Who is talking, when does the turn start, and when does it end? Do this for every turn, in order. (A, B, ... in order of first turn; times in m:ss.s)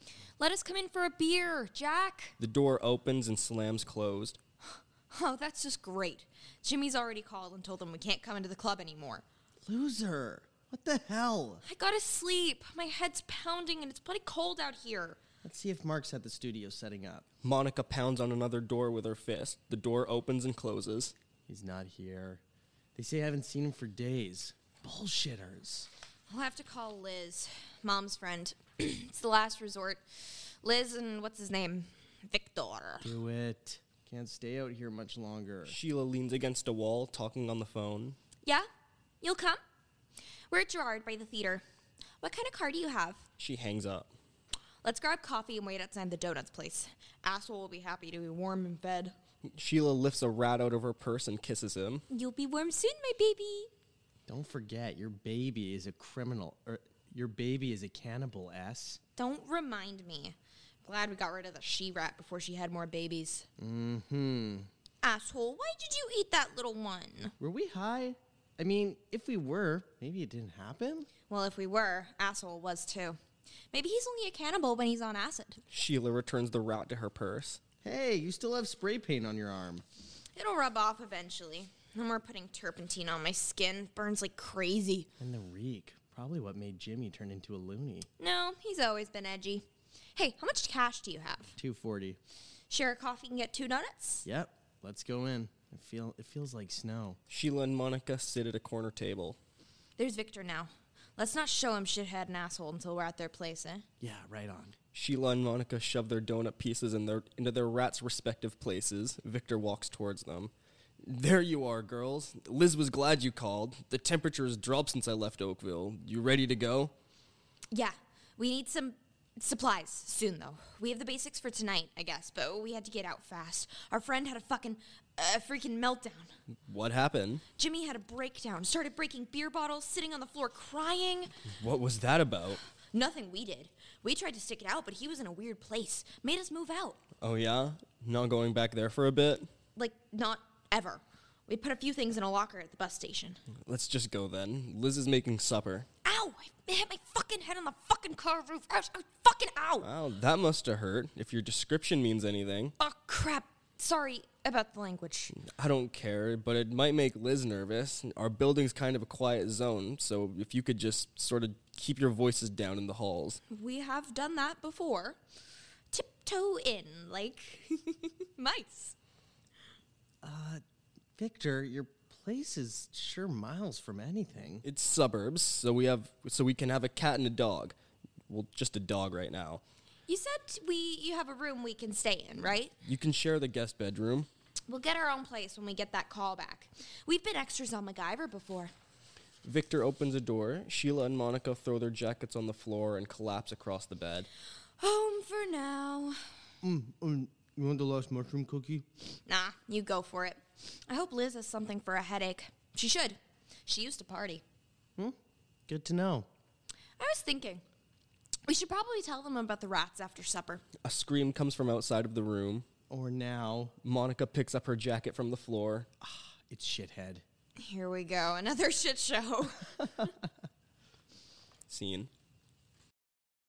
0:00.4-0:02.4 A
0:02.4-0:04.4 B
0:05.1-0:09.2 A
0:09.7-0:11.6 C
0:11.6-0:15.2 A
0:15.4-0:17.3 C
0:17.4-0:21.1 B
0:21.5-0:22.4 C
0:23.0-0:25.9 C
0:26.3-0:30.0 A
0:30.6-0:33.1 A
0:33.0-0:35.8 C
0:35.7-0:38.2 B
0:38.4-0:38.7 A
0:39.2-0:39.6 A
0:40.5-0:41.6 A
0:42.2-0:43.3 A
0:43.4-0:44.1 B
0:44.8-0:49.1 A
0:49.6-0:52.0 B
0:52.1-0:53.7 A
0:54.3-0:59.0 C
0:59.2-1:03.5 A
1:03.6-1:04.7 C
1:05.0-1:07.3 A
1:07.4-1:11.1 C
1:11.3-1:13.2 A
1:13.7-1:15.6 A
1:15.7-1:17.6 B
1:17.8-1:19.8 C
1:20.4-1:25.1 A
1:25.2-1:28.1 C
1:28.2-1:29.6 A
1:30.2-1:31.5 A
1:31.6-1:32.2 C
1:32.7-1:34.2 A
1:34.2-1:37.2 C
1:37.3-1:39.4 B
1:40.0-1:43.8 A
1:44.0-1:44.7 C
1:44.9-1:50.5 B
1:51.0-1:56.9 B
1:57.7-2:06.3 A
2:06.7-2:07.4 B
2:07.6-2:11.3 A
2:11.6-2:12.6 B
2:12.9-2:17.0 A
2:17.2-2:19.5 B
2:19.8-2:23.4 A
2:23.6-2:25.9 B
2:26.0-2:29.9 A
2:29.8-2:32.7 B
2:32.8-2:35.3 A
2:35.4-2:43.4 B
2:43.5-2:45.2 A
2:45.9-2:49.0 A
2:50.2-2:50.6 C
2:51.2-2:54.6 C
2:54.6-2:57.8 B
2:58.3-2:59.6 B
3:00.1-3:02.8 A
3:02.9-3:04.3 B
3:04.7-3:08.7 A
3:09.4-3:14.3 B
3:14.8-3:16.2 A
3:16.6-3:18.8 C
3:19.3-3:24.4 A
3:25.7-3:26.3 C
3:27.0-3:27.6 A
3:28.5-3:30.6 A
3:30.8-3:32.6 B
3:32.9-3:33.7 C
3:33.8-3:35.9 B
3:36.0-3:37.2 C
3:37.6-3:39.7 A
3:41.7-3:42.1 B